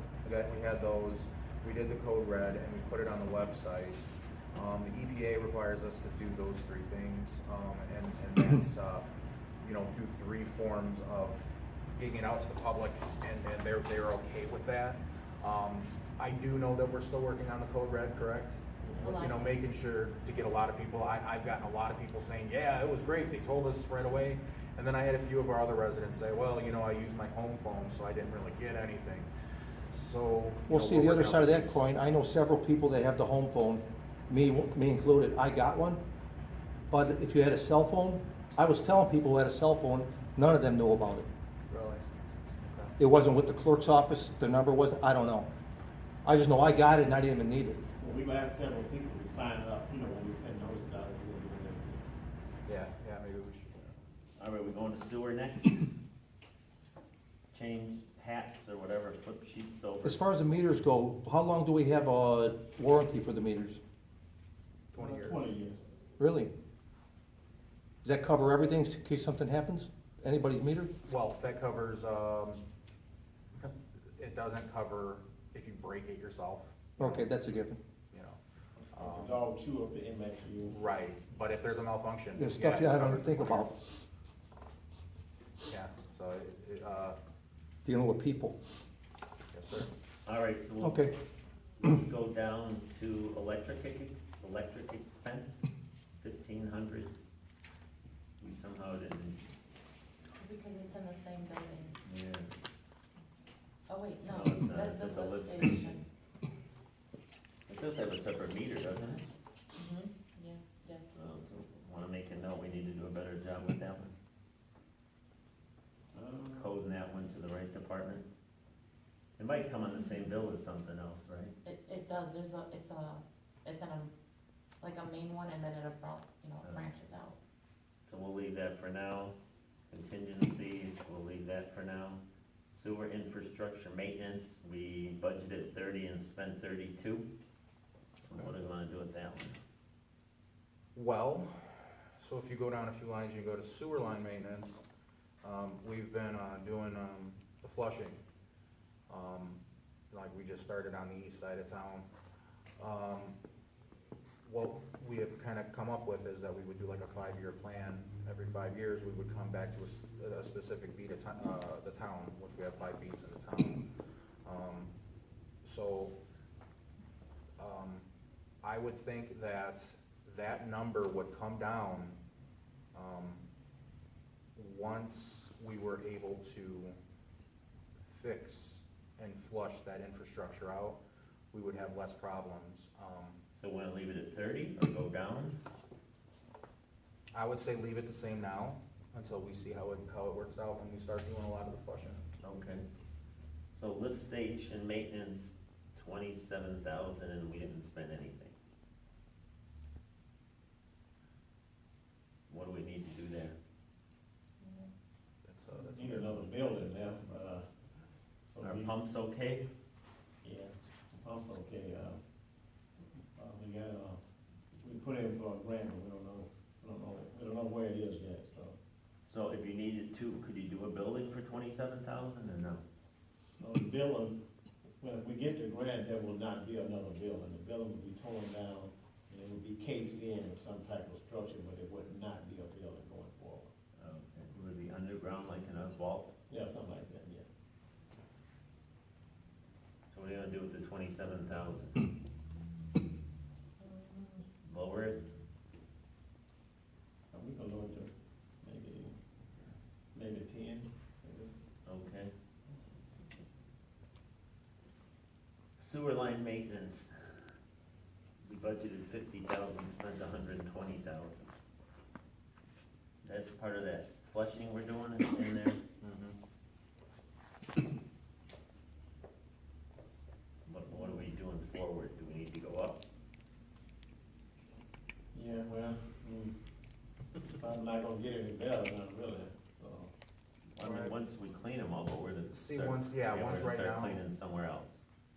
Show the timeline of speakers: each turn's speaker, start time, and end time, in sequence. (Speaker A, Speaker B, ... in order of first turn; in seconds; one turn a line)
Speaker A: 0.2-4.0
Speaker A: 4.5-9.1
Speaker A: 9.6-29.3
Speaker B: 18.8-19.2
Speaker C: 19.0-19.5
Speaker A: 29.9-31.8
Speaker D: 30.7-36.0
Speaker D: 36.9-41.3
Speaker A: 41.7-42.0
Speaker A: 42.6-42.9
Speaker D: 43.0-45.5
Speaker D: 46.2-47.8
Speaker B: 48.0-52.1
Speaker A: 52.7-54.0
Speaker E: 54.4-55.9
Speaker E: 57.5-60.2
Speaker D: 60.0-63.8
Speaker A: 64.9-65.4
Speaker B: 64.9-65.8
Speaker D: 66.2-66.5
Speaker D: 68.0-70.9
Speaker A: 71.0-72.6
Speaker A: 73.5-77.3
Speaker D: 77.0-77.8
Speaker A: 78.1-78.4
Speaker A: 78.9-79.4
Speaker B: 79.0-80.8
Speaker A: 80.7-83.7
Speaker D: 82.3-83.8
Speaker A: 85.7-87.2
Speaker D: 87.8-88.6
Speaker A: 89.5-89.9
Speaker E: 90.2-91.1
Speaker D: 90.8-91.1
Speaker E: 91.8-95.7
Speaker E: 96.2-97.1
Speaker E: 98.4-99.4
Speaker C: 100.4-102.0
Speaker E: 102.0-102.5
Speaker C: 103.9-106.0
Speaker E: 104.2-106.1
Speaker E: 107.7-109.2
Speaker C: 109.8-111.1
Speaker E: 111.1-114.1
Speaker B: 116.1-116.7
Speaker E: 116.5-118.2
Speaker E: 119.4-121.5
Speaker C: 121.6-124.1
Speaker C: 124.8-127.4
Speaker E: 126.6-126.9
Speaker E: 128.1-129.3
Speaker E: 129.9-132.2
Speaker E: 132.7-137.3
Speaker E: 138.3-139.6
Speaker A: 140.9-144.8
Speaker A: 145.4-148.2
Speaker A: 149.1-149.6
Speaker A: 150.1-152.1
Speaker A: 152.8-153.3
Speaker A: 154.4-163.8
Speaker A: 164.4-164.9
Speaker A: 165.6-166.2
Speaker A: 167.6-168.1
Speaker A: 168.6-172.2
Speaker A: 172.9-173.4
Speaker A: 174.6-176.9
Speaker A: 178.1-181.0
Speaker A: 181.5-183.4
Speaker E: 183.6-185.6
Speaker A: 187.3-192.2
Speaker E: 192.4-192.8
Speaker E: 193.7-198.5
Speaker E: 202.5-203.6
Speaker C: 204.6-204.9
Speaker A: 205.4-206.5
Speaker B: 205.8-207.6
Speaker B: 208.5-208.9
Speaker E: 208.6-209.7
Speaker B: 210.4-212.2
Speaker B: 213.3-214.2
Speaker B: 214.8-218.8
Speaker E: 219.3-222.8
Speaker B: 223.6-224.4
Speaker B: 225.0-233.7
Speaker E: 234.0-236.3
Speaker B: 236.5-237.4
Speaker E: 240.1-242.1
Speaker C: 243.8-244.4
Speaker E: 244.6-245.2
Speaker B: 247.3-248.1
Speaker B: 248.6-249.2
Speaker B: 250.1-251.5
Speaker E: 251.8-252.3
Speaker E: 255.8-257.4
Speaker E: 258.4-261.5
Speaker E: 263.2-265.8
Speaker A: 266.0-266.4
Speaker E: 270.7-273.0
Speaker B: 275.3-276.5
Speaker B: 277.6-280.1
Speaker E: 280.7-285.0
Speaker A: 280.8-281.2
Speaker A: 282.5-284.2